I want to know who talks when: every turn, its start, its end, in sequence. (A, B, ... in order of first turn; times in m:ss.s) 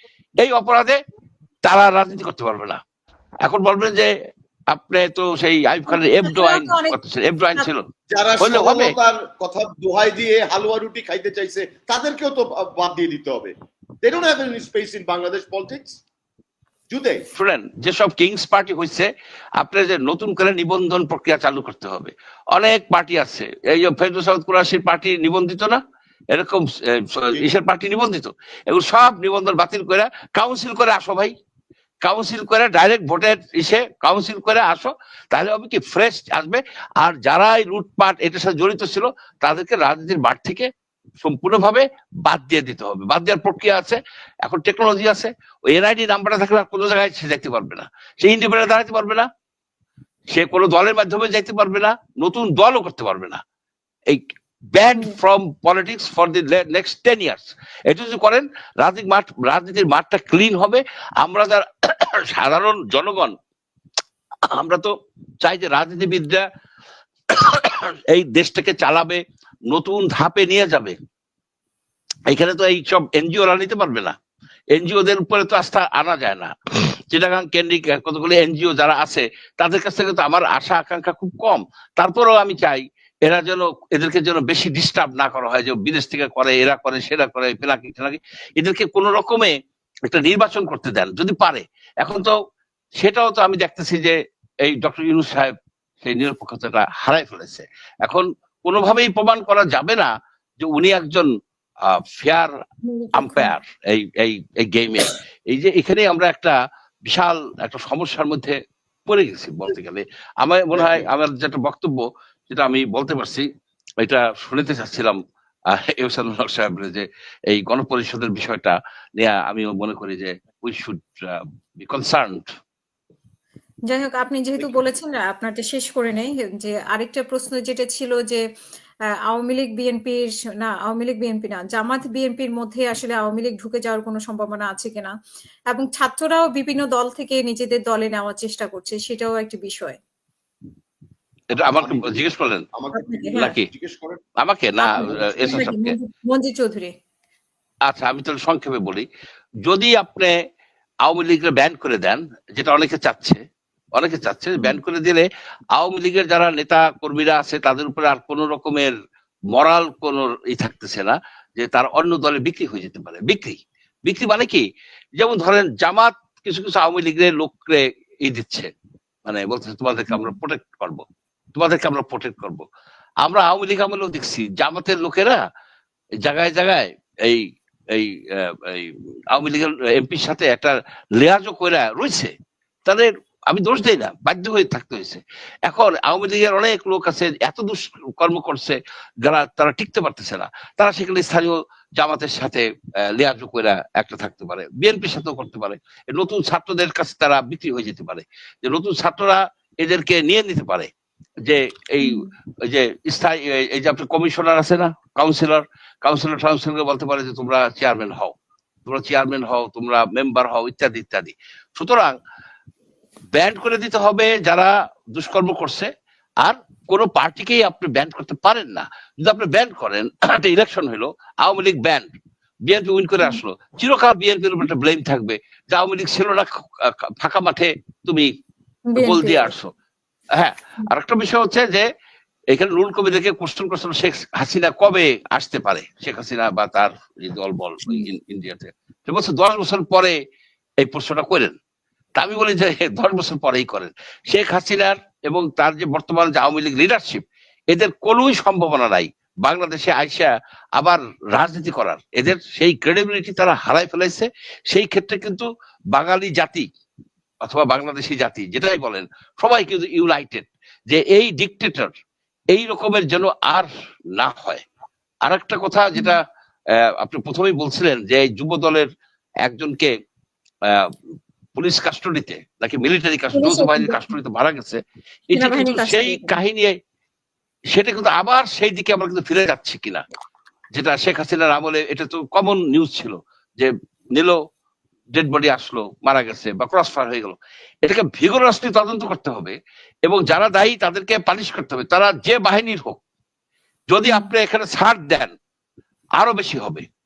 0:00.4-0:01.0 A
0:01.7-0:02.8 A
0:03.4-0:04.1 A
0:04.7-0:07.8 A
0:05.9-0:07.0 B
0:08.1-0:16.0 C
0:08.4-0:08.9 A
0:16.9-0:17.2 C
0:17.4-0:25.8 A
0:26.3-0:31.3 A
0:32.0-0:40.7 A
0:41.2-0:49.3 A
0:50.3-0:53.4 A
0:54.8-1:03.3 A
1:04.5-1:04.9 A
1:05.4-1:06.4 A
1:07.3-1:11.0 A
1:12.3-1:14.2 A
1:14.7-1:16.5 A
1:17.1-1:29.6 A
1:30.1-1:32.3 A
1:33.0-1:34.2 A
1:34.7-1:40.1 A
1:40.6-1:41.3 A
1:41.9-1:42.5 A
1:42.9-1:43.5 B
1:43.2-1:46.6 A
1:47.1-1:48.6 A
1:49.1-1:53.5 A
1:50.7-1:51.1 C
1:54.0-1:55.2 A
1:55.7-2:02.4 A
2:03.9-2:08.4 B
2:09.3-2:15.1 B
2:15.7-2:20.0 B
2:21.5-2:22.7 A
2:21.6-2:24.2 C
2:22.9-2:23.6 B
2:23.3-2:23.7 A
2:24.4-2:26.0 A
2:24.8-2:26.9 B
2:25.0-2:25.7 C
2:27.9-2:29.1 A
2:29.7-2:30.3 A
2:31.1-2:33.4 A
2:34.0-2:38.9 A
2:39.5-2:44.6 A
2:45.2-2:48.7 A
2:49.2-2:51.0 A
2:50.1-2:50.4 B
2:51.6-2:52.6 A
2:53.2-2:55.4 A
2:56.2-3:02.3 A
3:02.9-3:20.9 A
3:21.4-3:28.3 A
3:22.0-3:22.3 B
3:28.9-3:32.2 A
3:33.3-3:35.9 A
3:36.4-3:42.1 A
3:42.7-3:48.3 A
3:48.9-3:49.5 B
3:49.0-3:49.7 A
3:50.4-3:51.9 A
3:52.5-4:00.2 A
4:00.8-4:01.6 A
4:02.2-4:16.7 A
4:17.4-4:21.9 A
4:22.5-4:24.6 A
4:25.3-4:26.2 A
4:27.0-4:28.9 A
4:29.4-4:29.9 A
4:31.6-4:36.8 A
4:33.3-4:34.0 B
4:35.3-4:36.4 B
4:37.7-4:40.0 A
4:40.8-4:44.4 A
4:45.2-4:53.0 A
4:53.9-4:55.3 A
4:54.1-4:54.3 B
4:56.2-4:56.8 A